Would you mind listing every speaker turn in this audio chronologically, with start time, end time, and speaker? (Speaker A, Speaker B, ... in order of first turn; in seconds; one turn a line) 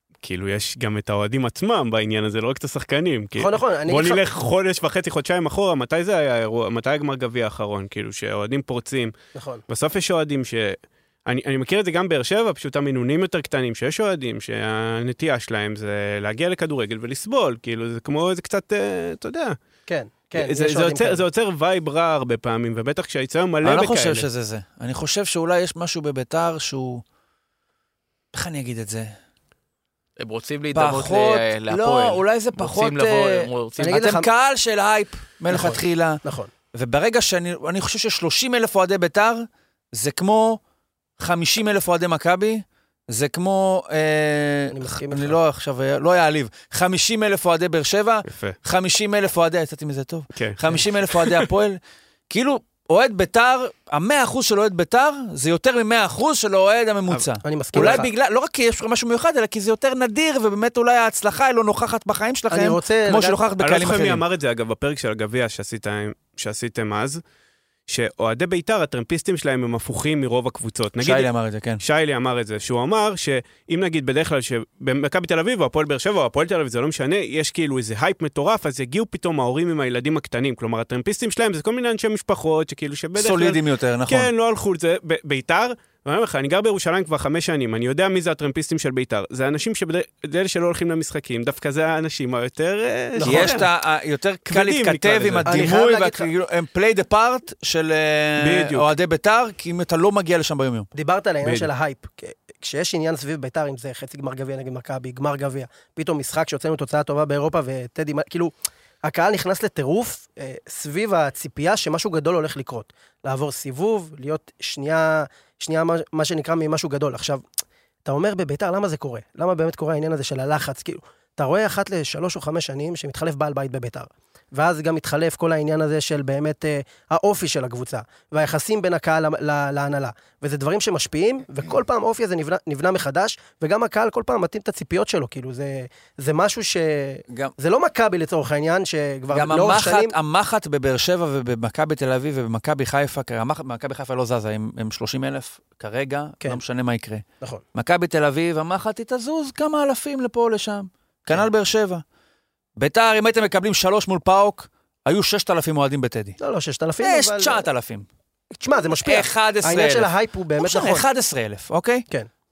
Speaker A: 0.2-9.1
Speaker B: 3.4-4.2
Speaker B: 9.3-9.6
Speaker A: 9.7-19.6
Speaker B: 19.9-21.2
Speaker A: 20.3-24.2
Speaker C: 23.6-27.0
Speaker C: 28.3-29.1
Speaker D: 30.2-34.0
Speaker C: 30.7-36.2
Speaker B: 33.8-34.3
Speaker B: 35.5-36.5
Speaker C: 36.7-40.6
Speaker C: 41.2-64.2
Speaker B: 44.7-45.4
Speaker A: 48.3-48.6
Speaker A: 50.3-51.5
Speaker B: 57.4-58.1
Speaker B: 62.5-63.4
Speaker A: 63.6-67.2
Speaker A: 67.9-71.3
Speaker C: 71.0-71.8
Speaker A: 71.8-93.7
Speaker C: 83.2-84.3
Speaker B: 93.2-93.6
Speaker C: 93.2-100.9
Speaker A: 94.5-95.6
Speaker B: 95.5-96.3
Speaker A: 98.4-98.9
Speaker B: 100.9-117.4
Speaker A: 101.4-101.7
Speaker B: 118.0-140.1
Speaker C: 137.3-137.5
Speaker C: 139.3-147.2
Speaker C: 147.7-152.0
Speaker C: 152.8-156.4
Speaker B: 156.4-157.6
Speaker C: 157.0-158.1
Speaker B: 158.5-161.0
Speaker C: 159.0-162.1